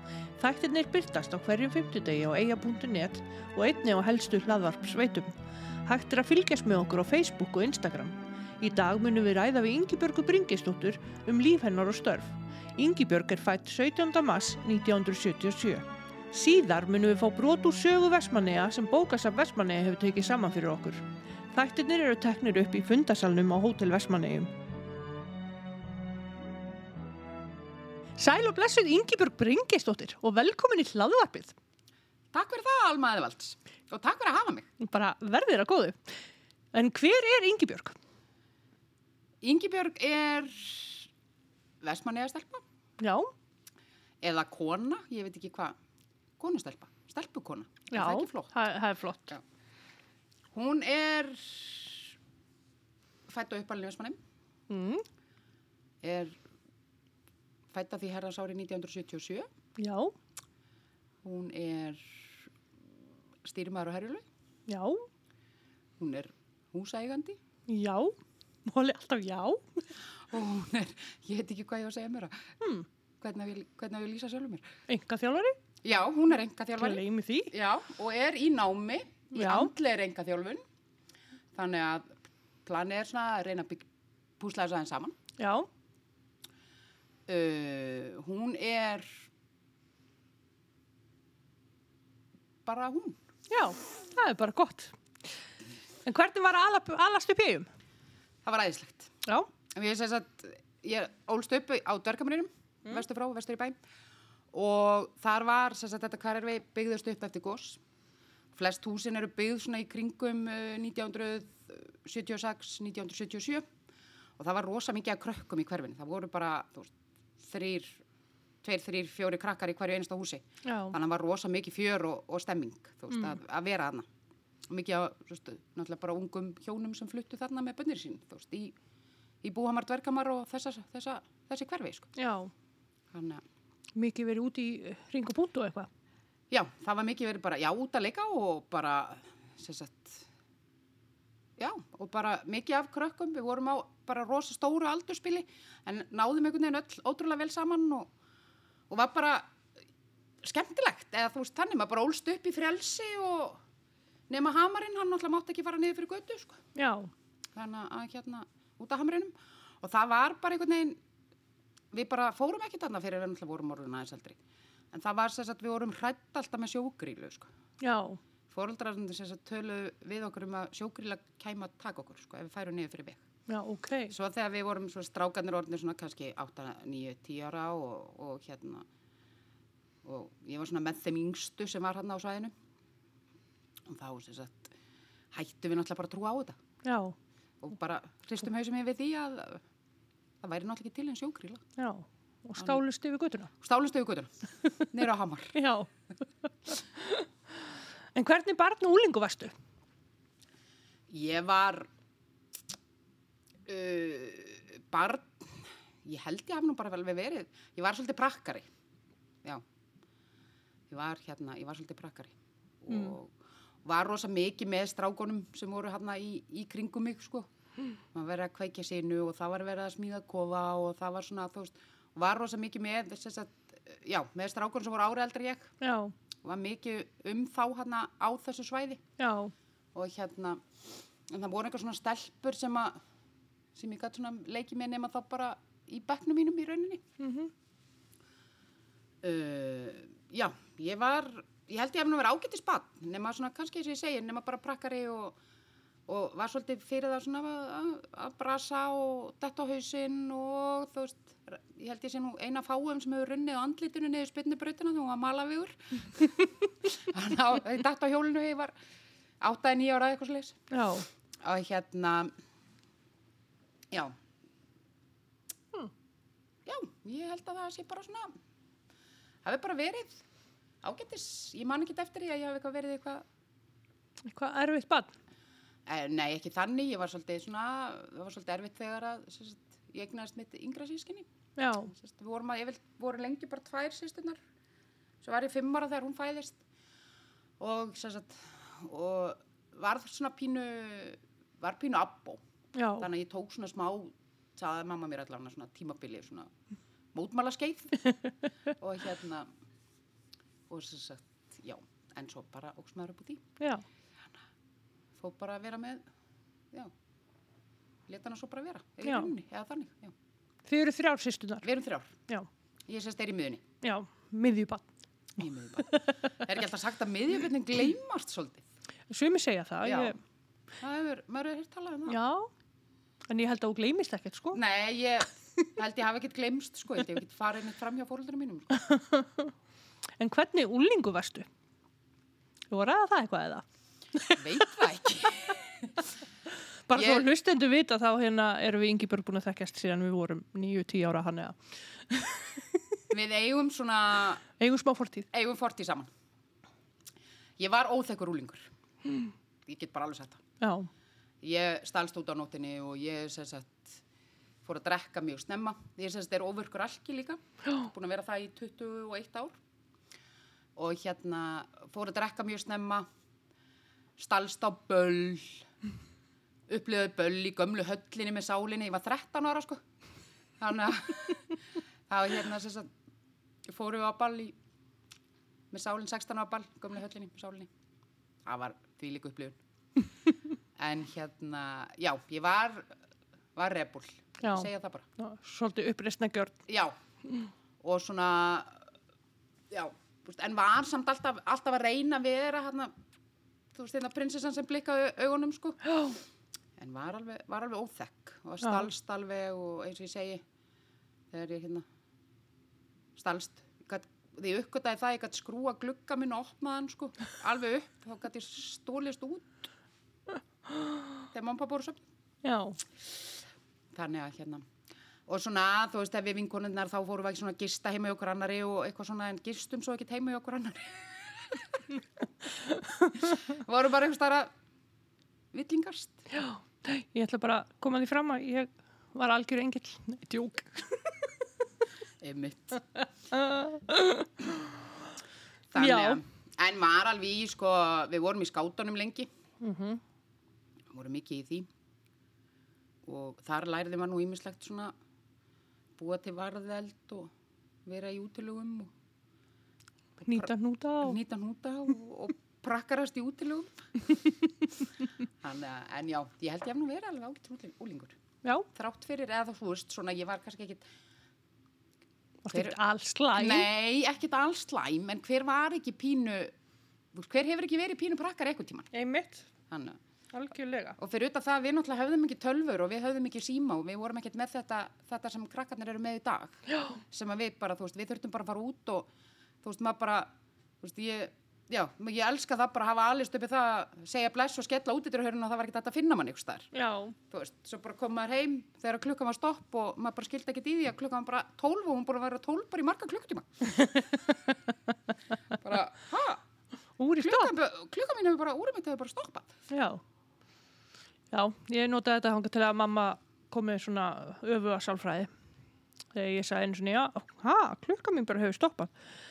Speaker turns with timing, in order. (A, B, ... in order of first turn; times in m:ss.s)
0:00.4-0:05.3 A
0:05.8-0:24.5 A
0:28.2-0:31.6 A
0:32.3-0:34.7 B
0:34.8-0:36.2 A
0:36.7-0:38.0 A
0:39.4-0:41.1 B
0:41.8-0:42.6 B
0:43.0-0:43.3 A
0:44.2-0:45.7 B
0:46.4-0:48.5 B
0:47.9-0:49.4 A
0:50.5-0:52.1 B
0:53.3-0:54.2 B
0:54.7-0:55.0 A
0:56.0-0:56.4 B
0:57.7-0:59.5 B
0:59.8-1:00.1 A
1:01.2-1:02.5 B
1:03.4-1:04.2 B
1:04.7-1:05.0 A
1:06.0-1:07.4 B
1:07.7-1:09.8 A
1:10.2-1:12.5 B
1:12.6-1:12.9 A
1:13.2-1:14.6 B
1:14.9-1:15.6 A
1:15.8-1:20.6 B
1:16.8-1:17.5 A
1:19.4-1:19.7 A
1:21.5-1:22.1 B
1:22.6-1:23.9 B
1:24.4-1:25.2 B
1:25.4-1:25.7 A
1:27.3-1:29.2 B
1:32.6-1:33.2 B
1:33.5-1:35.0 A
1:36.0-1:37.7 A
1:38.4-1:39.1 B
1:39.7-1:43.8 B
1:44.5-1:47.8 B
1:48.5-1:53.7 B
1:54.4-1:58.0 B
1:58.6-2:04.1 B
2:00.6-2:01.0 A
2:03.1-2:03.4 A
2:04.7-2:08.8 B
2:09.4-2:12.1 B
2:12.2-2:12.5 A
2:13.1-2:13.4 B
2:14.0-2:15.9 A
2:16.5-2:20.3 B
2:21.6-2:28.1 B
2:28.9-2:29.5 B
2:30.4-2:33.6 B
2:34.3-2:36.6 B
2:36.7-2:37.1 A
2:37.5-2:41.0 B
2:41.9-2:44.4 B
2:44.9-2:47.5 B
2:47.8-2:48.2 A
2:48.5-2:53.2 B
2:53.5-2:54.1 A
2:54.1-2:58.9 B
3:00.0-3:02.5 B
3:03.8-3:04.7 B
3:05.3-3:06.6 B
3:06.8-3:07.1 A
3:07.6-3:09.6 B
3:10.4-3:11.6 B
3:11.8-3:13.5 A
3:13.6-3:15.5 B
3:15.5-3:15.9 A
3:16.7-3:17.3 A
3:18.1-3:19.5 A
3:21.1-3:21.9 B
3:23.6-3:28.7 B
3:30.9-3:37.5 B
3:32.9-3:33.2 A
3:38.1-3:45.7 B
3:45.8-3:46.1 A
3:46.4-3:49.0 B
3:49.2-3:49.5 A
3:49.9-3:50.6 B
3:51.3-3:53.0 B
3:53.7-3:57.0 B
3:57.2-3:57.5 A
3:59.2-4:05.4 B
4:06.1-4:18.7 B
4:19.4-4:20.6 B
4:20.7-4:21.1 A
4:21.4-4:22.3 B
4:26.6-4:28.4 B
4:29.4-4:30.2 B
4:30.8-4:33.2 B
4:34.2-4:35.1 A
4:35.8-4:41.3 B
4:41.6-4:41.9 A
4:41.9-4:44.4 B
4:45.2-4:46.6 B
4:47.6-4:52.4 B
4:52.7-4:53.1 A
4:53.0-4:56.5 B
4:57.1-4:58.0 B
4:58.8-4:59.5 B
5:00.7-5:03.5 B
5:03.6-5:03.8 A
5:05.1-5:06.0 B
5:08.1-5:10.1 B
5:09.0-5:09.3 A
5:10.7-5:11.6 A
5:11.6-5:12.1 B
5:12.9-5:13.6 B
5:13.8-5:14.8 A
5:15.4-5:18.7 B
5:15.8-5:16.4 A
5:19.1-5:20.2 A
5:19.8-5:20.2 B
5:20.8-5:22.2 B
5:22.1-5:22.5 A
5:23.3-5:24.6 A
5:24.5-5:28.8 B
5:28.7-5:29.5 A
5:30.2-5:31.5 A
5:32.7-5:34.8 A
5:34.4-5:35.9 B
5:36.9-5:42.8 A
5:36.9-5:37.3 B
5:43.1-5:44.4 B
5:44.6-5:45.3 A
5:45.3-5:46.1 B
5:47.6-5:48.7 B
5:49.6-5:50.4 B
5:50.6-5:50.9 A
5:51.4-5:54.0 B
5:54.6-5:59.6 B
6:00.8-6:03.0 B
6:04.2-6:05.6 B
6:06.7-6:09.8 B
6:10.6-6:12.9 B
6:13.6-6:14.6 B
6:15.7-6:17.7 B
6:18.4-6:19.6 B
6:20.8-6:22.9 B
6:23.6-6:25.0 B
6:24.4-6:26.6 A
6:26.7-6:26.9 B
6:27.8-6:28.9 B
6:29.7-6:32.9 B
6:33.7-6:35.8 B
6:35.9-6:36.2 A
6:36.8-6:40.4 B
6:38.6-6:38.9 A
6:41.3-6:41.8 B
6:43.2-6:49.7 B
6:50.7-6:51.0 A
6:51.3-6:52.0 B
6:52.4-6:52.8 A
6:53.9-6:54.6 B
6:55.3-7:01.8 B
7:02.5-7:03.4 A
7:03.2-7:04.5 B
7:05.5-7:06.2 B
7:06.3-7:11.3 A
7:12.2-7:12.8 B
7:13.3-7:14.8 A
7:15.7-7:19.3 B
7:15.8-7:16.2 A
7:19.6-7:20.0 A
7:20.9-7:21.7 B
7:23.0-7:24.9 B
7:26.0-7:27.3 B
7:27.8-7:28.9 B
7:30.2-7:34.2 B
7:30.2-7:31.2 A
7:35.4-7:38.2 B
7:38.7-7:40.8 B
7:42.4-7:43.7 A
7:42.5-7:42.8 B
7:43.3-7:46.5 B
7:47.1-7:48.9 B
7:48.9-7:49.5 A
7:49.7-7:50.0 B
7:50.3-7:51.0 A
7:51.0-7:59.1 B
7:56.7-7:57.0 A
7:59.6-8:00.3 B
8:00.8-8:06.7 B
8:06.7-8:07.2 A
8:07.3-8:14.0 B
8:13.8-8:14.5 A
8:15.5-8:16.4 B
8:17.0-8:17.5 A
8:17.2-8:19.5 B
8:19.7-8:20.0 A
8:21.3-8:25.3 A
8:26.1-8:28.9 A